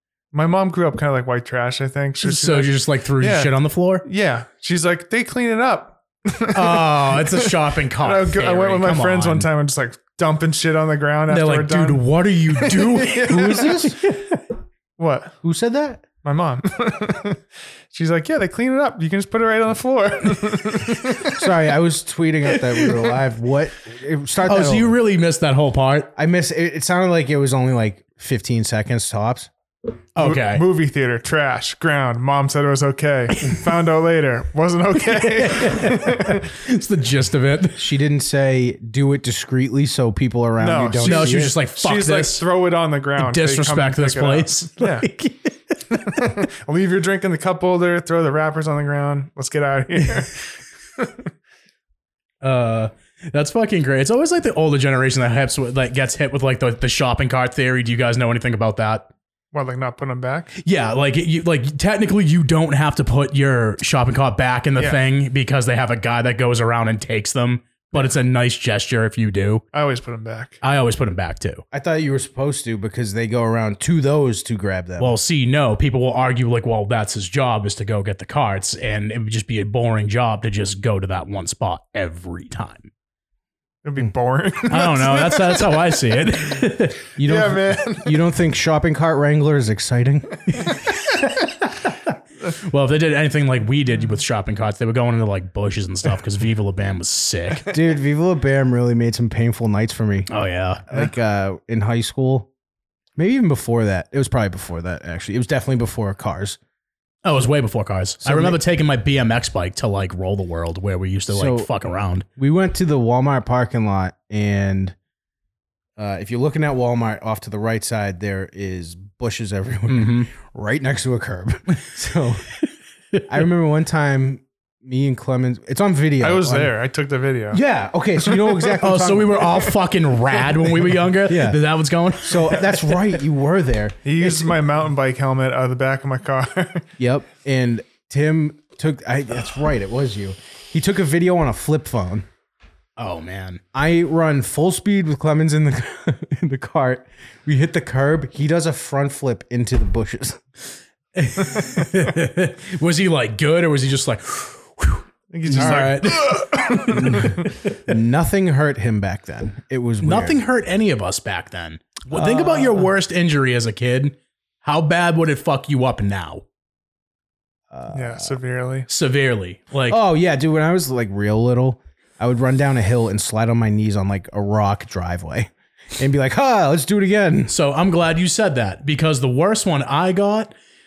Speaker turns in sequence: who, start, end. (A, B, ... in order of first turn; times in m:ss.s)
0:00.3-0:03.5 A
0:02.2-0:04.0 B
0:04.0-0:12.0 A
0:06.5-0:09.5 B
0:11.3-0:14.2 B
0:12.6-0:13.7 A
0:13.2-0:14.0 C
0:15.0-0:15.3 A
0:15.4-0:16.0 C
0:16.2-0:17.4 A
0:17.9-0:21.4 A
0:21.3-0:25.0 C
0:24.4-0:26.1 B
0:26.2-0:29.5 C
0:30.2-0:30.6 B
0:30.2-0:36.5 A
0:35.4-0:37.8 B
0:37.8-0:41.6 C
0:40.6-0:45.1 A
0:41.0-0:42.4 B
0:43.2-0:46.2 B
0:46.1-0:51.1 A
0:52.4-0:59.1 B
0:59.5-1:00.5 A
1:00.6-1:09.6 B
1:09.7-1:10.6 A
1:10.6-1:11.6 B
1:11.7-1:15.2 C
1:15.0-1:22.9 B
1:23.8-1:25.7 A
1:24.7-1:27.0 B
1:27.2-1:30.4 C
1:27.2-1:28.2 A
1:31.2-1:31.9 B
1:32.6-1:37.7 B
1:37.6-1:40.3 C
1:40.3-1:40.8 B
1:40.9-1:42.5 C
1:43.2-1:46.6 C
1:47.2-1:52.2 B
1:48.2-1:48.6 C
1:51.3-1:51.7 C
1:52.4-1:54.9 C
1:56.0-2:02.4 C
1:59.9-2:00.3 B
2:03.3-2:06.8 C
2:06.2-2:07.6 A
2:07.5-2:09.6 C
2:08.8-2:12.7 B
2:11.2-2:11.6 C
2:12.2-2:14.6 C
2:14.0-2:16.8 A
2:17.0-2:22.3 C
2:23.0-2:23.6 B
2:23.7-2:30.4 C
2:31.2-2:37.3 B
2:35.3-2:37.3 A
2:35.5-2:36.0 C
2:36.8-2:40.4 C
2:40.0-2:46.4 B
2:42.1-2:42.9 C
2:47.7-2:48.4 C
2:47.9-2:48.9 A
2:48.9-2:50.0 B
2:49.9-2:57.5 C
2:57.5-3:00.5 B